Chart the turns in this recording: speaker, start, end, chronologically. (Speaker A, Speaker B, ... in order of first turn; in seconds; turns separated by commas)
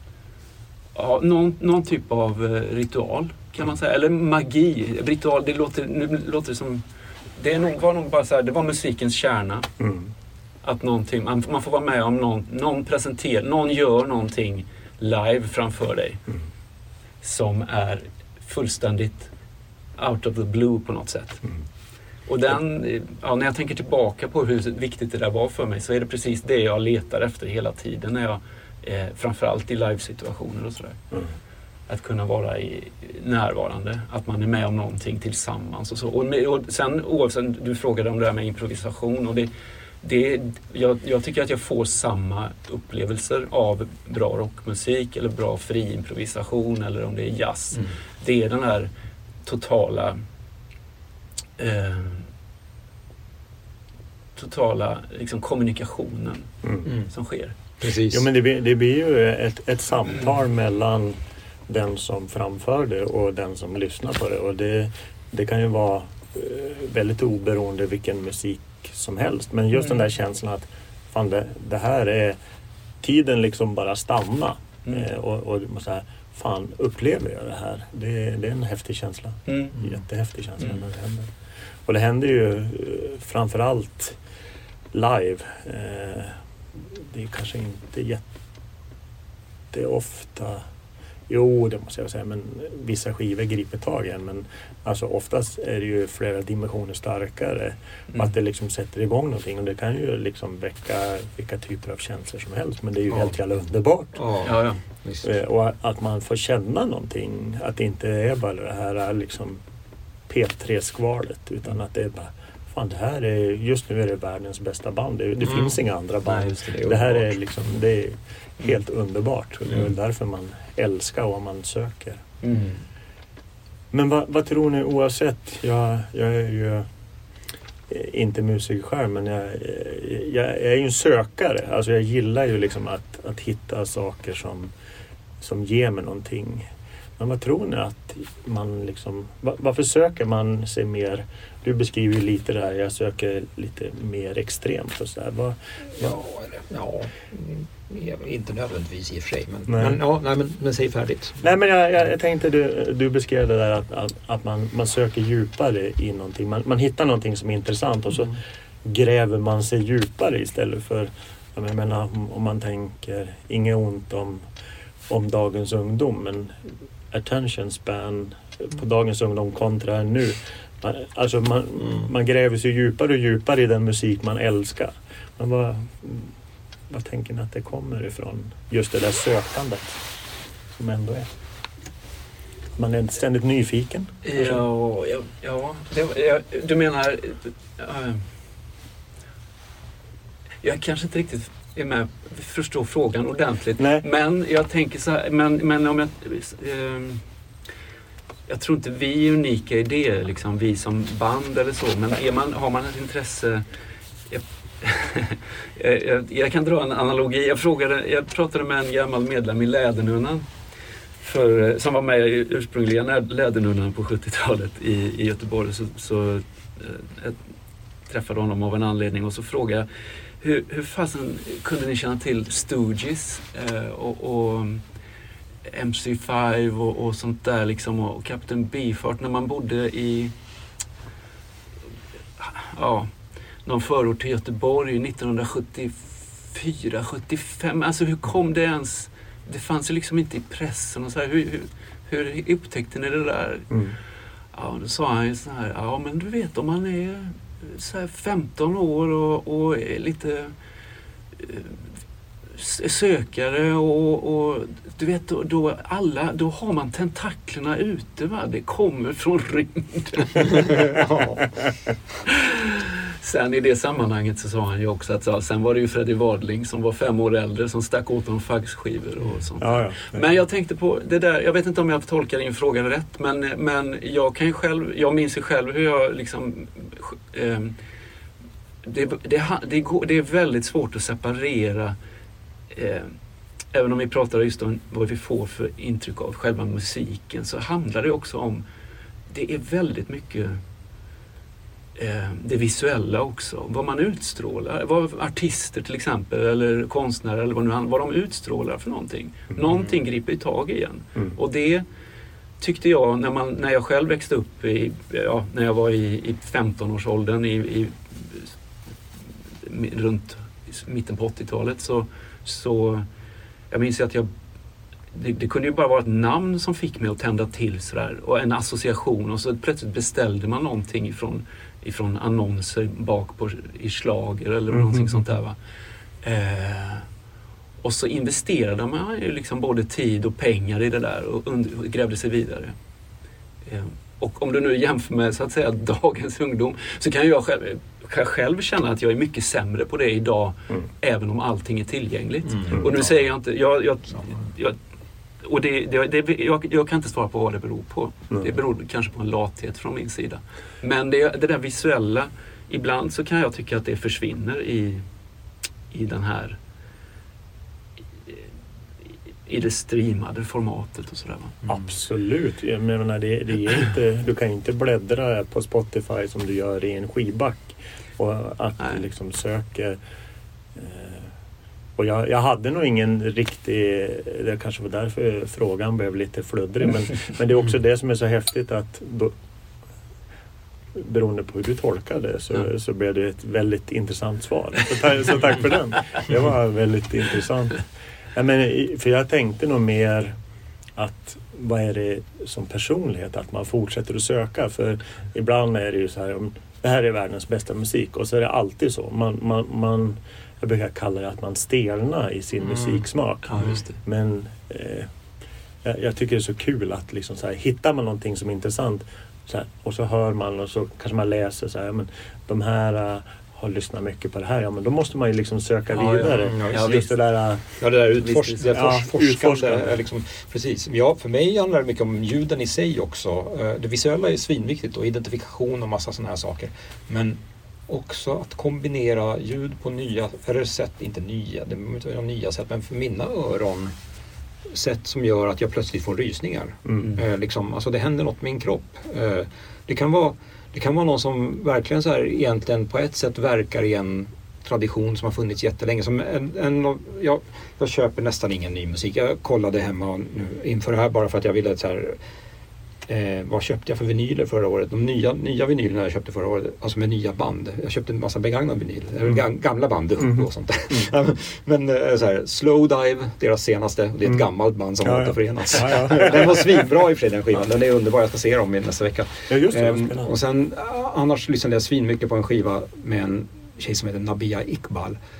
Speaker A: 0.9-6.8, Speaker A: 7.4-9.7, Speaker B: 9.8-10.1, Speaker A: 10.6-16.2, Speaker A: 17.2-19.3, Speaker A: 20.0-21.4, Speaker A: 22.3-31.0, Speaker A: 31.9-39.5, Speaker A: 40.0-48.9, Speaker A: 49.4-50.2, Speaker A: 51.6-52.3, Speaker A: 54.4-56.5, Speaker C: 56.8-57.1, Speaker A: 57.1-57.5, Speaker C: 57.8-58.3, Speaker B: 58.1-72.4, Speaker B: 73.0-81.3, Speaker A: 79.5-79.8, Speaker B: 81.8-84.2, Speaker B: 84.9-88.3, Speaker B: 89.7-90.6, Speaker B: 91.3-104.2, Speaker C: 104.1-105.3, Speaker A: 104.4-104.8, Speaker B: 105.2-109.6, Speaker B: 110.3-122.2, Speaker C: 115.4-117.3, Speaker A: 122.4-122.8, Speaker B: 123.9-126.9, Speaker B: 127.9-134.7, Speaker B: 135.4-146.2, Speaker C: 146.0-151.4, Speaker B: 149.7-150.0, Speaker B: 151.4-164.4, Speaker B: 165.1-166.6, Speaker B: 167.1-176.3, Speaker B: 176.9-180.0, Speaker B: 180.8-181.3, Speaker B: 182.8-184.6, Speaker A: 184.2-188.2, Speaker A: 190.6-197.2, Speaker B: 193.8-194.0, Speaker A: 198.5-203.6, Speaker A: 204.3-210.5, Speaker A: 211.2-217.4, Speaker A: 218.1-219.9, Speaker A: 220.4-224.8, Speaker A: 225.7-230.3, Speaker A: 232.4-233.1, Speaker A: 233.6-243.7, Speaker B: 243.7-243.9, Speaker A: 244.5-250.5, Speaker A: 251.4-251.8, Speaker A: 252.5-260.8, Speaker C: 260.5-261.5, Speaker A: 262.2-277.8, Speaker B: 269.6-270.3, Speaker A: 278.8-281.9, Speaker A: 282.7-283.1, Speaker A: 283.7-288.6, Speaker A: 289.3-290.6, Speaker A: 291.9-301.8, Speaker A: 302.6-308.5, Speaker A: 309.6-313.1, Speaker A: 313.7-314.3, Speaker A: 315.1-325.6, Speaker B: 324.7-325.3, Speaker A: 326.2-327.1, Speaker A: 327.8-332.7, Speaker A: 333.6-344.8, Speaker C: 342.4-343.3, Speaker C: 344.1-344.4, Speaker A: 345.4-355.0, Speaker A: 355.9-356.6, Speaker A: 359.4-361.7, Speaker B: 361.7-370.0, Speaker B: 370.7-371.3, Speaker B: 371.9-379.3, Speaker B: 380.9-390.3, Speaker B: 390.9-405.1, Speaker C: 402.7-403.0, Speaker A: 403.5-403.9, Speaker B: 405.8-417.6, Speaker A: 415.9-417.1, Speaker C: 416.2-417.0, Speaker C: 417.8-433.9, Speaker A: 418.2-418.7, Speaker B: 418.7-419.9, Speaker C: 434.7-452.2, Speaker C: 453.1-475.2, Speaker B: 460.2-461.1, Speaker B: 465.0-466.7, Speaker B: 469.5-470.3